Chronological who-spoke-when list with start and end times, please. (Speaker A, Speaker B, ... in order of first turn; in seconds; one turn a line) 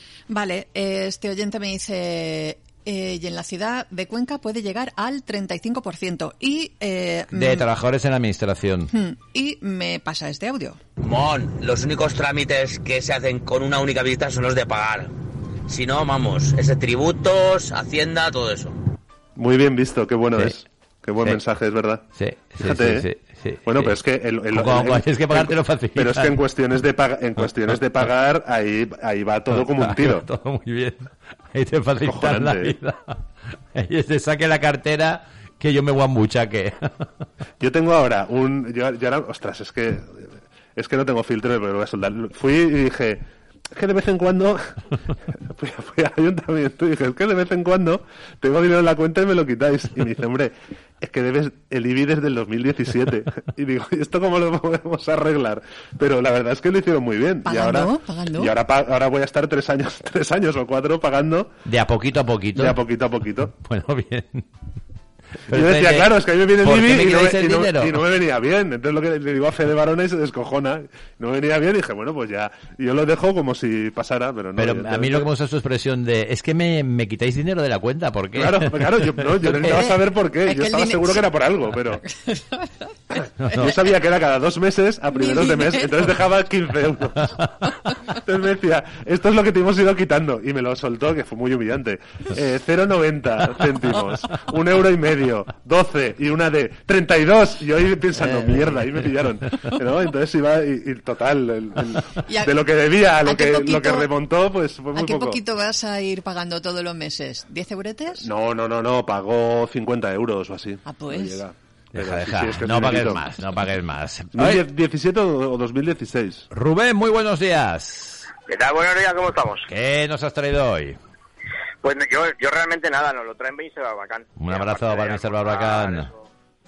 Speaker A: 0.3-7.7
Speaker B: 7.3-8.9
Speaker A: 8.9-10.8
Speaker C: 11.0-15.1
Speaker C: 15.7-18.7
Speaker D: 19.4-22.0
Speaker B: 22.1-23.9
Speaker D: 22.6-23.1
Speaker D: 23.6-30.2
Speaker B: 24.5-26.3
Speaker B: 27.4-28.1
Speaker B: 29.5-33.2
Speaker D: 32.0-32.7
Speaker B: 33.7-36.9
Speaker D: 37.6-40.2
Speaker D: 40.8-43.2
Speaker D: 43.7-44.7
Speaker D: 45.5-61.5
Speaker A: 57.4-58.5
Speaker B: 61.6-62.8
Speaker D: 62.5-63.5
Speaker B: 63.5-64.5
Speaker B: 65.5-66.1
Speaker D: 65.5-75.3
Speaker B: 66.6-68.0
Speaker B: 74.6-79.9
Speaker D: 78.3-82.0
Speaker A: 80.4-81.2
Speaker A: 82.2-82.7
Speaker B: 83.4-83.7
Speaker D: 83.5-87.3
Speaker A: 85.1-86.1
Speaker D: 88.1-105.4
Speaker A: 102.2-102.5
Speaker A: 103.2-104.1
Speaker A: 104.9-108.3
Speaker D: 108.2-113.2
Speaker A: 110.8-111.4
Speaker B: 111.9-114.6
Speaker D: 114.3-116.5
Speaker B: 116.5-118.3
Speaker E: 118.5-119.7
Speaker B: 119.7-121.0
Speaker E: 121.8-126.2
Speaker B: 124.4-126.1